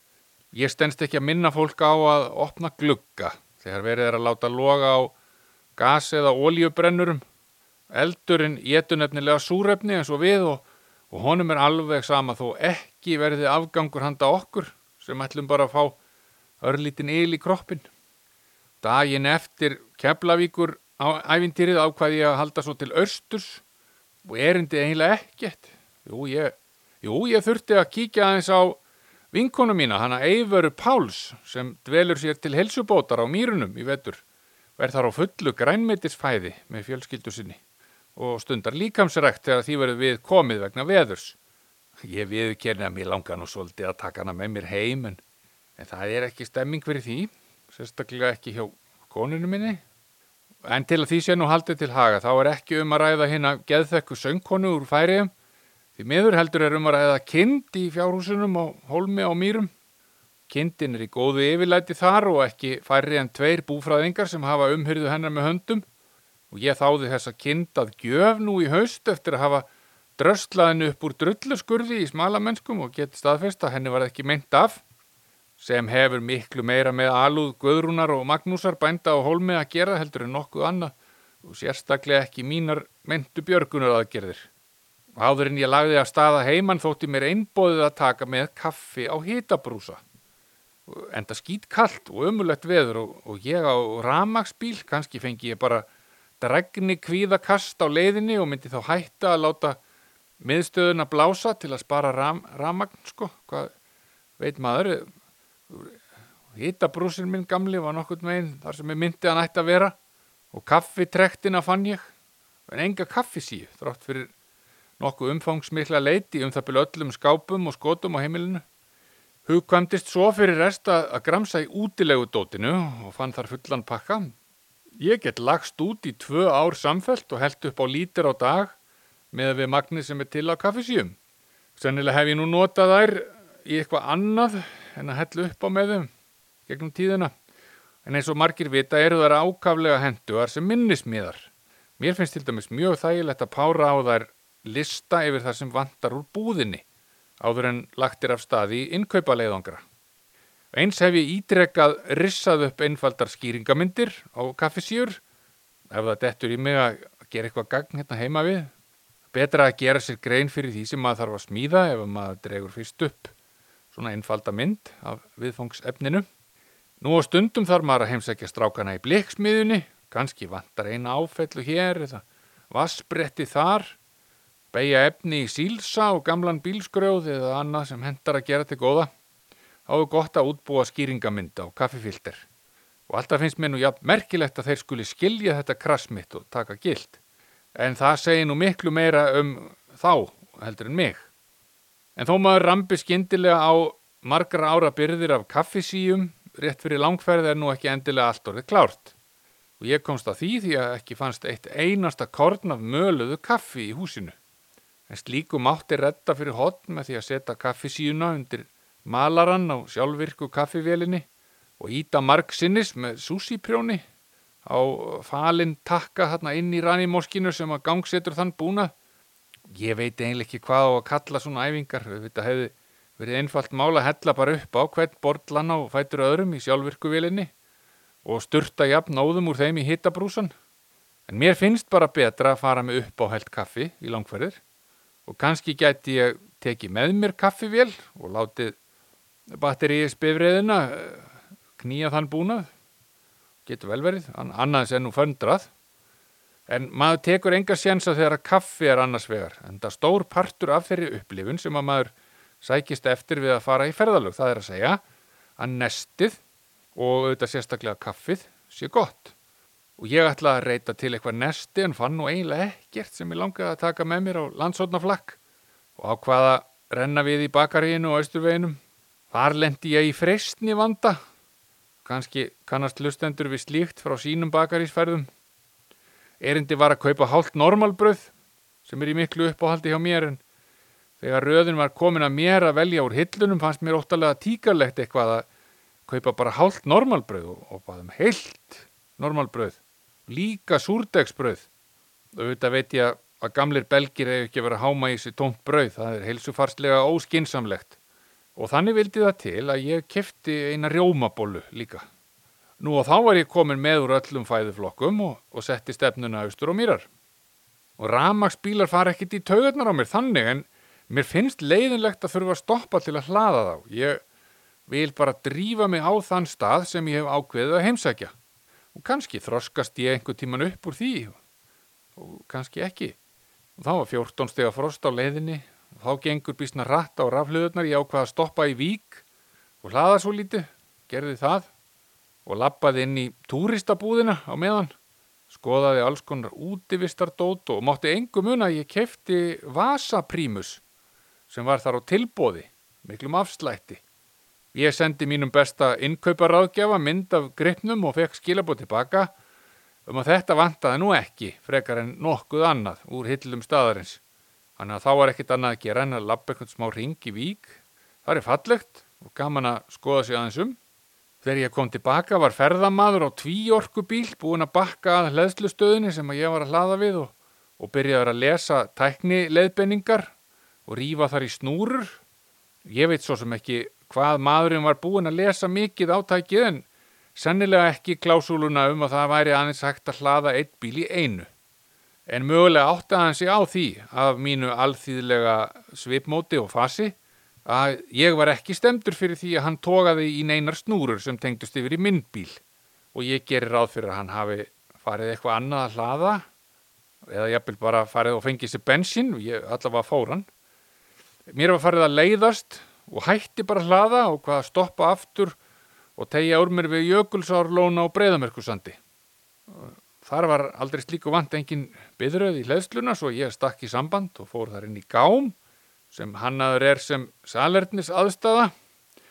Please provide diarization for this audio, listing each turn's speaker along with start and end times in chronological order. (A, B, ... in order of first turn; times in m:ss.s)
0:00.5-0:05.1 A
0:05.8-0:07.2 A
0:07.9-0:15.9 A
0:16.6-0:17.9 A
0:18.8-0:23.6 A
0:24.2-0:28.8 A
0:29.3-0:34.2 A
0:34.8-0:37.6 A
0:38.2-0:41.4 A
0:42.0-0:45.2 A
0:45.8-0:49.8 A
0:50.6-0:55.3 A
0:56.0-0:59.7 A
1:00.5-1:05.8 A
1:06.5-1:09.6 A
1:10.2-1:14.8 A
1:15.6-1:20.9 A
1:21.4-1:24.5 A
1:25.2-1:30.0 A
1:30.9-1:35.9 A
1:36.4-1:39.8 A
1:40.4-1:43.7 A
1:44.4-1:45.1 A
1:45.7-1:46.0 A
1:46.5-1:49.9 A
1:50.5-1:52.1 A
1:52.7-1:54.3 A
1:55.0-1:58.6 A
1:59.4-2:04.3 A
2:05.0-2:08.8 A
2:09.3-2:11.2 A
2:11.8-2:16.1 A
2:16.7-2:17.3 A
2:18.0-2:21.5 A
2:22.0-2:26.8 A
2:27.4-2:29.8 A
2:30.7-2:35.2 A
2:35.9-2:38.7 A
2:39.3-2:43.3 A
2:43.9-2:46.2 A
2:47.0-2:54.0 A
2:54.7-2:59.1 A
2:59.9-3:02.4 A
3:03.1-3:07.2 A
3:07.8-3:11.3 A
3:12.2-3:19.1 A
3:19.8-3:24.4 A
3:25.1-3:31.2 A
3:31.8-3:34.0 A
3:34.6-3:38.9 A
3:39.7-3:47.5 A
3:48.2-3:50.5 A
3:51.3-3:54.6 A
3:55.3-3:58.8 A
3:59.5-4:02.7 A
4:03.6-4:05.7 A
4:06.7-4:15.0 A
4:15.6-4:16.4 A
4:16.9-4:19.3 A
4:20.0-4:25.4 A
4:26.0-4:28.8 A
4:29.3-4:31.2 A
4:32.0-4:35.3 A
4:36.4-4:38.3 A
4:38.8-4:40.4 A
4:41.2-4:45.4 A
4:46.1-4:51.6 A
4:52.3-4:57.9 A
4:58.6-5:02.0 A
5:02.8-5:07.1 A
5:08.0-5:14.2 A
5:14.9-5:18.3 A
5:18.9-5:21.4 A
5:22.2-5:23.1 A
5:23.8-5:29.2 A
5:29.8-5:31.7 A
5:32.4-5:34.9 A
5:35.5-5:40.8 A
5:41.5-5:44.0 A
5:44.7-5:49.3 A
5:50.1-5:54.2 A
5:54.8-6:00.8 A
6:01.4-6:10.3 A
6:10.9-6:12.2 A
6:12.8-6:21.5 A
6:22.3-6:27.1 A
6:27.6-6:32.6 A
6:33.1-6:36.4 A
6:37.3-6:40.5 A
6:41.5-6:45.6 A
6:46.2-6:49.0 A
6:49.7-6:55.6 A
6:56.1-6:58.7 A